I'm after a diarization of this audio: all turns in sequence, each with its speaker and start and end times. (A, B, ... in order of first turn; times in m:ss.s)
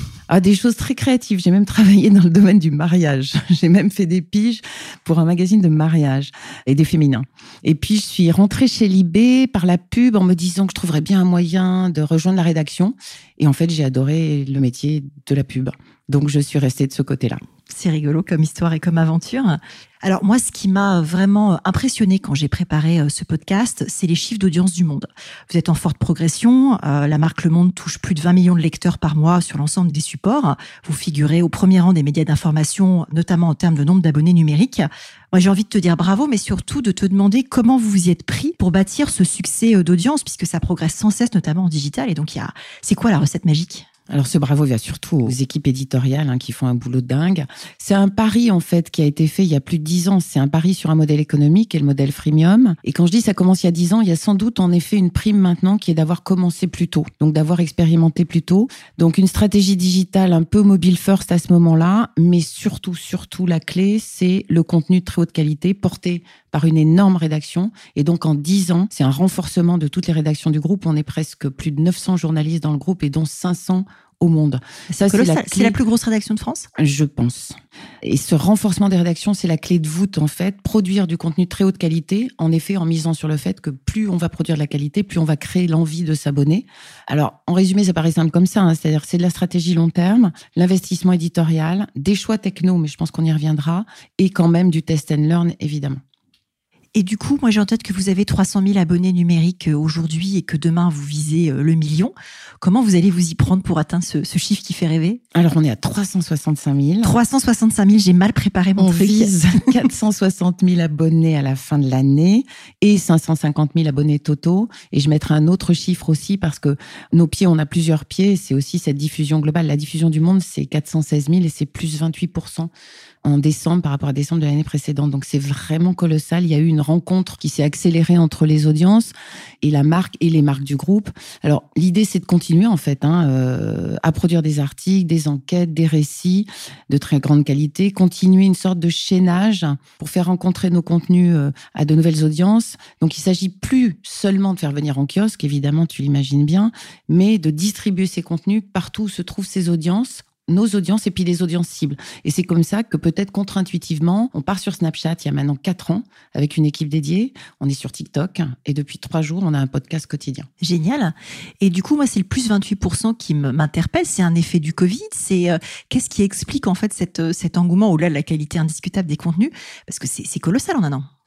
0:00.3-0:17.4 A
0:17.7-0:43.8 B
0:44.1-1:15.8 A
1:14.9-1:16.7 B
1:16.8-1:36.0 A
1:36.9-1:45.2 B
1:45.3-1:47.2 A
1:47.0-1:49.8 B
1:48.8-2:02.7 A
2:03.2-2:40.5 A
2:40.6-2:51.1 B